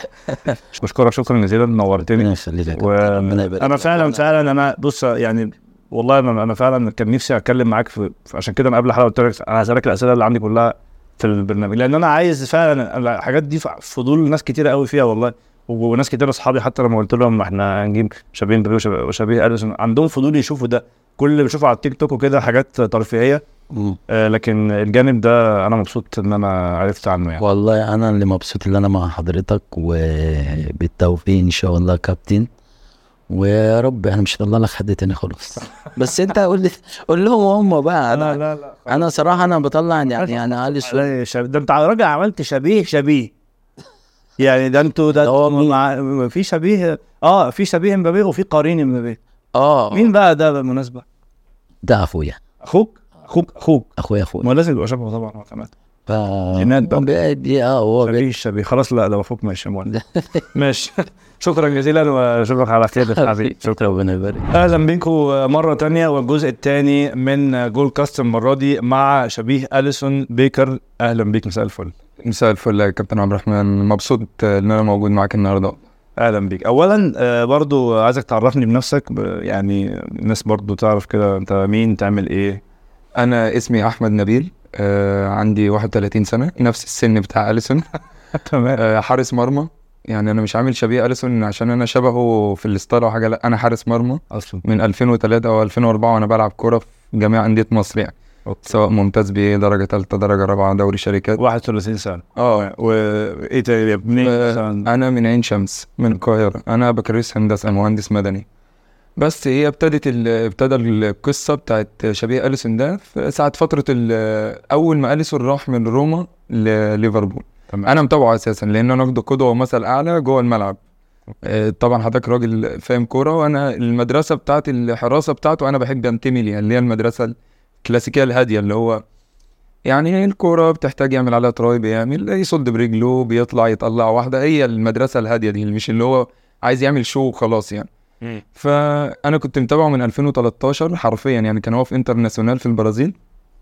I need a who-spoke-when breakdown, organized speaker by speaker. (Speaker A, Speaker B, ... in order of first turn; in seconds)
Speaker A: 0.7-23.4, 24.1-27.4, 38.1-39.3, 40.1-43.3, 44.4-49.2, 49.9-51.0, 52.6-53.9, 54.4-55.7, 56.6-57.1, 58.0-60.0, 60.5-63.8, 64.5-71.9, 76.2-82.6, 88.3-88.8, 94.3-94.6, 98.5-98.8, 101.4-104.9
Speaker B: 2.1-4.2, 23.7-24.0, 27.4-32.5, 33.3-41.1, 45.2-45.7, 49.5-50.1, 51.8-52.4, 54.0-54.5, 56.1-58.3, 59.9-60.4, 63.0-64.5
Speaker C: 72.2-75.8, 83.2-87.8, 88.8-101.4, 102.4-102.7, 104.2-108.5, 109.2-120.8, 121.4-129.0, 129.9-137.9, 138.6-143.1